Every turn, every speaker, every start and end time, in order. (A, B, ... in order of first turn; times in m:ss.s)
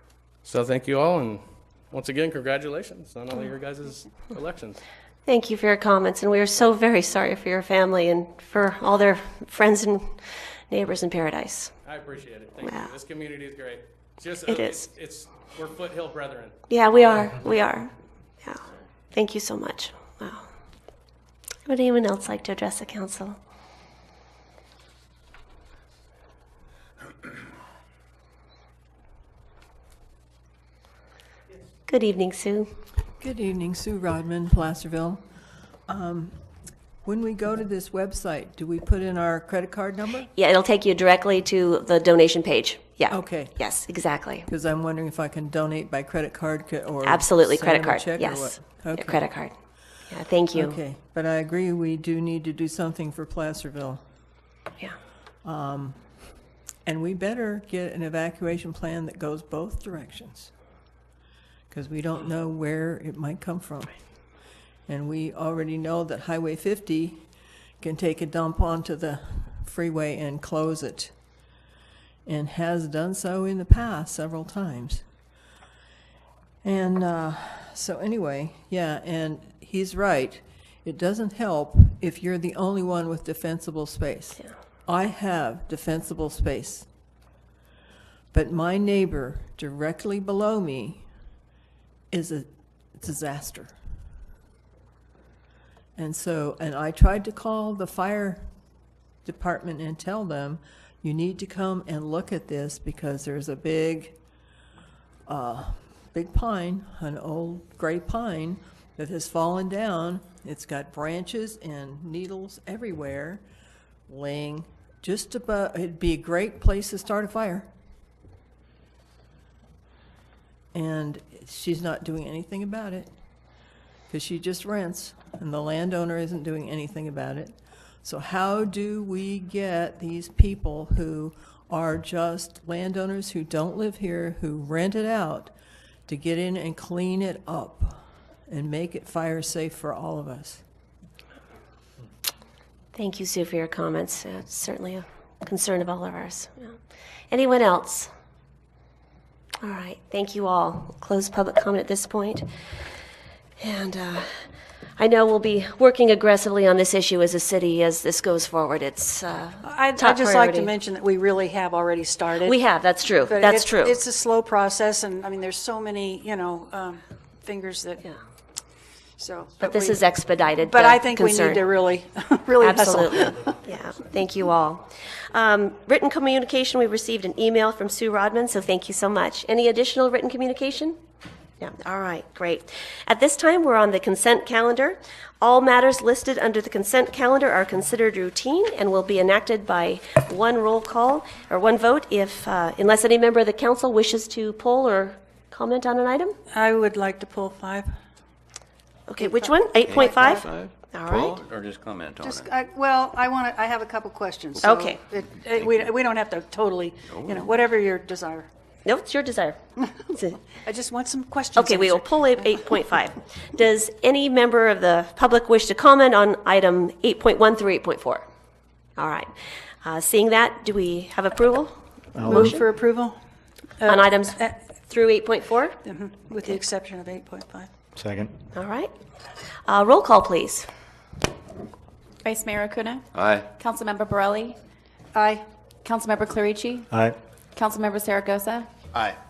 0:00.4-0:04.8 A
0:05.2-0:11.7 B
0:11.8-0:16.5 A
0:12.6-0:12.9 B
0:14.5-0:14.8 B
0:16.7-0:18.6 B
0:19.1-0:20.5 B
0:21.6-0:23.4 B
0:31.9-0:32.7 B
0:33.2-0:35.2 C
0:35.9-0:36.4 C
0:37.0-0:40.3 C
0:40.3-0:44.5 B
0:43.1-0:43.6 C
0:44.5-0:49.2 C
0:47.0-0:49.5 B
0:50.1-0:50.8 B
0:50.5-0:54.0 C
0:55.4-0:56.0 C
0:56.8-1:00.5 C
1:01.7-1:04.0 C
1:04.9-1:07.2 C
1:07.8-1:11.1 C
1:12.2-1:15.0 C
1:16.6-1:26.9 C
1:28.3-1:31.0 C
1:32.1-1:33.7 C
1:36.0-1:38.5 C
1:39.2-1:44.2 C
1:45.3-1:53.4 C
1:54.1-1:57.7 C
2:00.7-2:03.1 C
2:04.1-2:15.5 C
2:16.1-2:20.6 C
2:22.9-2:26.8 B
2:27.3-2:28.1 B
2:29.6-2:32.5 B
2:33.6-2:34.3 B
2:35.0-2:40.7 B
2:39.6-2:42.6 D
2:42.4-2:44.0 B
2:43.3-2:48.0 D
2:49.2-2:50.0 D
2:49.6-2:51.6 B
2:50.6-2:53.5 D
2:52.6-3:01.0 B
3:01.6-3:16.3 B
3:16.5-3:17.9 D
3:19.1-3:21.4 B
3:19.2-3:20.5 D
3:19.8-3:22.5 E
3:22.2-3:28.5 D
3:24.6-3:25.0 B
3:25.6-3:25.9 E
3:27.1-3:27.6 E
3:28.8-3:30.4 B
3:30.6-3:32.0 D
3:31.6-3:38.2 B
3:39.0-3:39.3 B
3:39.8-3:41.7 B
3:42.2-3:43.1 D
3:42.3-3:42.6 B
3:43.8-3:44.5 D
3:43.8-3:45.8 B
3:45.8-3:47.7 D
3:48.5-3:48.9 B
3:49.6-3:50.7 B
3:52.2-3:54.6 F
3:53.1-3:53.5 E
3:55.1-3:55.4 D
3:55.8-3:56.9 F
3:57.5-3:58.7 F